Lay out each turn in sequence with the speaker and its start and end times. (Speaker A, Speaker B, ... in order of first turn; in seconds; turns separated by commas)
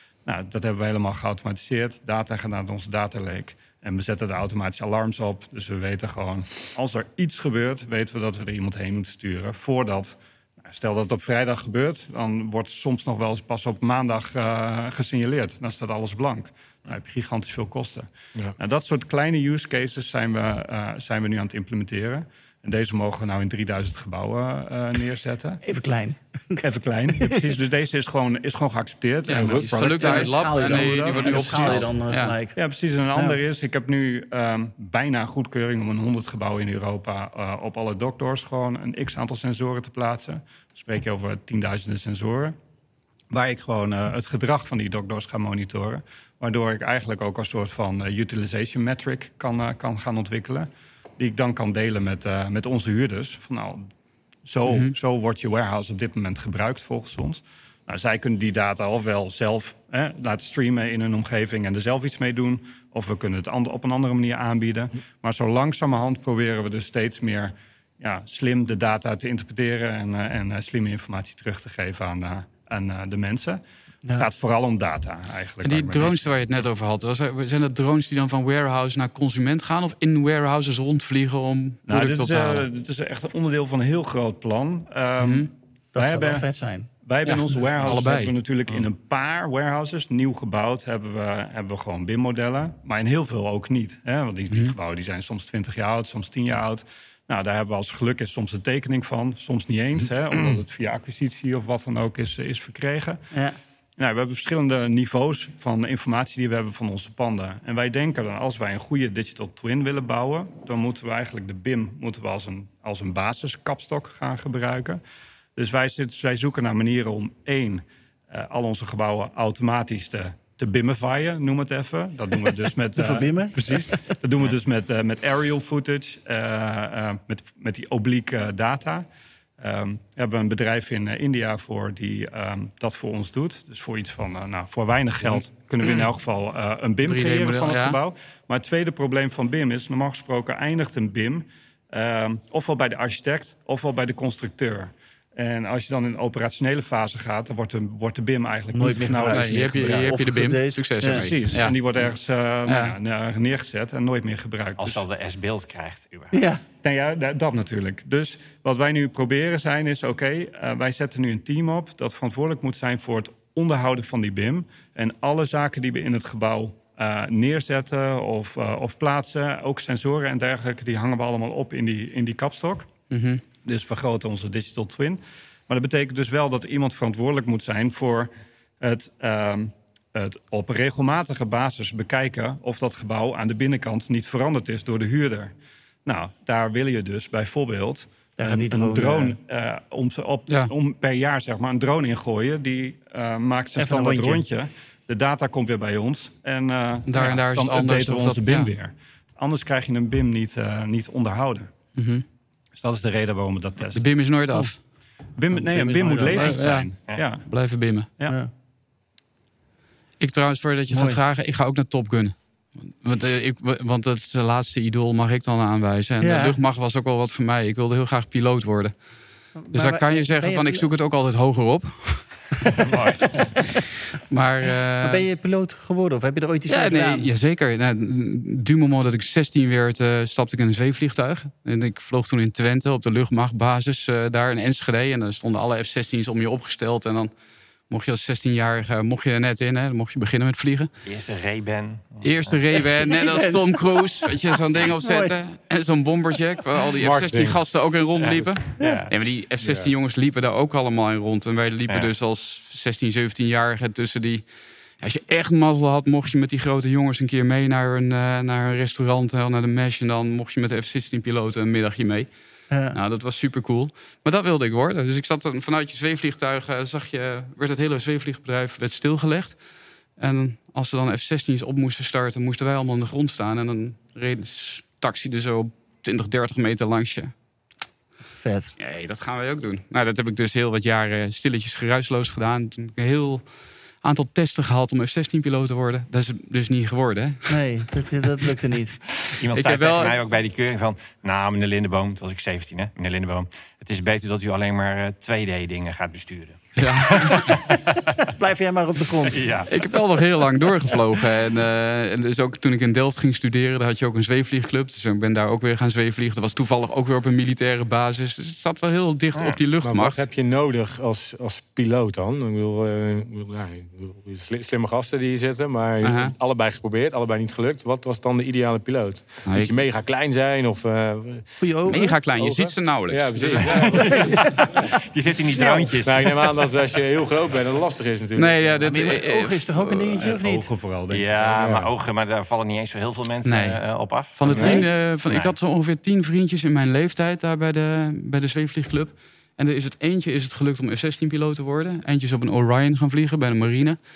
Speaker A: 0.2-25.6, Speaker B: 25.6-26.6, Speaker A: 26.6-31.9, Speaker B: 27.1-27.4, Speaker C: 29.3-32.3, Speaker D: 29.3-29.8, Speaker B: 29.8-32.6, Speaker A: 32.5-42.5, Speaker B: 33.1-33.4, Speaker A: 43.3-53.9, Speaker A: 54.4-76.2, Speaker C: 54.7-54.9, Speaker C: 75.6-82.7, Speaker A: 81.9-86.5, Speaker C: 85.2-85.5, Speaker B: 85.9-86.9, Speaker A: 87.0-103.2, Speaker C: 87.2-88.3, Speaker A: 104.0-115.0, Speaker A: 115.5-129.1, Speaker B: 123.0-124.0, Speaker A: 129.6-150.2, Speaker C: 135.8-136.1, Speaker C: 137.0-138.0, Speaker B: 148.7-151.3, Speaker C: 149.3-151.8, Speaker A: 151.0-155.0, Speaker C: 152.7-152.9, Speaker E: 154.8-156.4, Speaker B: 156.3-156.6, Speaker A: 156.8-172.9, Speaker C: 173.1-173.4, Speaker A: 173.6-178.3, Speaker A: 178.8-185.5, Speaker A: 186.0-201.7, Speaker B: 188.4-189.4, Speaker B: 193.8-194.4, Speaker C: 197.1-198.7, Speaker C: 201.9-202.2, Speaker A: 202.8-204.1, Speaker C: 203.9-204.8, Speaker A: 205.3-208.4, Speaker B: 205.7-206.9, Speaker C: 205.7-206.8, Speaker C: 207.4-208.1, Speaker B: 208.2-208.5, Speaker C: 210.2-219.0, Speaker B: 210.9-211.2, Speaker B: 216.2-216.6, Speaker B: 219.6-220.8, Speaker C: 219.7-222.4, Speaker E: 222.8-223.4, Speaker C: 224.1-225.2, Speaker B: 225.0-227.3, Speaker C: 226.7-237.3, Speaker C: 237.9-240.9, Speaker E: 241.0-242.6, Speaker C: 242.2-254.5, Speaker B: 242.7-243.8, Speaker B: 244.8-245.4, Speaker D: 247.0-247.6, Speaker E: 248.2-249.1, Speaker B: 248.8-249.0, Speaker D: 249.6-249.9, Speaker C: 255.0-262.3, Speaker B: 262.7-262.9, Speaker C: 262.9-269.6, Speaker C: 270.1-277.3, Speaker B: 278.4-278.7, Speaker C: 278.8-283.4, Speaker C: 284.0-287.6, Speaker B: 287.5-289.0, Speaker E: 289.2-298.3, Speaker C: 289.5-290.2, Speaker C: 296.8-297.5, Speaker B: 298.3-299.5, Speaker E: 299.3-299.7, Speaker C: 299.7-310.2, Speaker D: 309.8-324.9, Speaker C: 316.0-316.3, Speaker C: 319.4-319.7, Speaker B: 321.6-322.2, Speaker C: 321.9-324.0, Speaker E: 323.8-326.4, Speaker B: 324.2-324.7, Speaker B: 325.5-325.9, Speaker D: 326.0-329.0, Speaker C: 328.4-330.0, Speaker B: 328.8-330.7, Speaker A: 330.0-331.6, Speaker E: 331.1-335.5, Speaker D: 331.5-331.9, Speaker C: 333.4-344.0, Speaker B: 334.5-334.9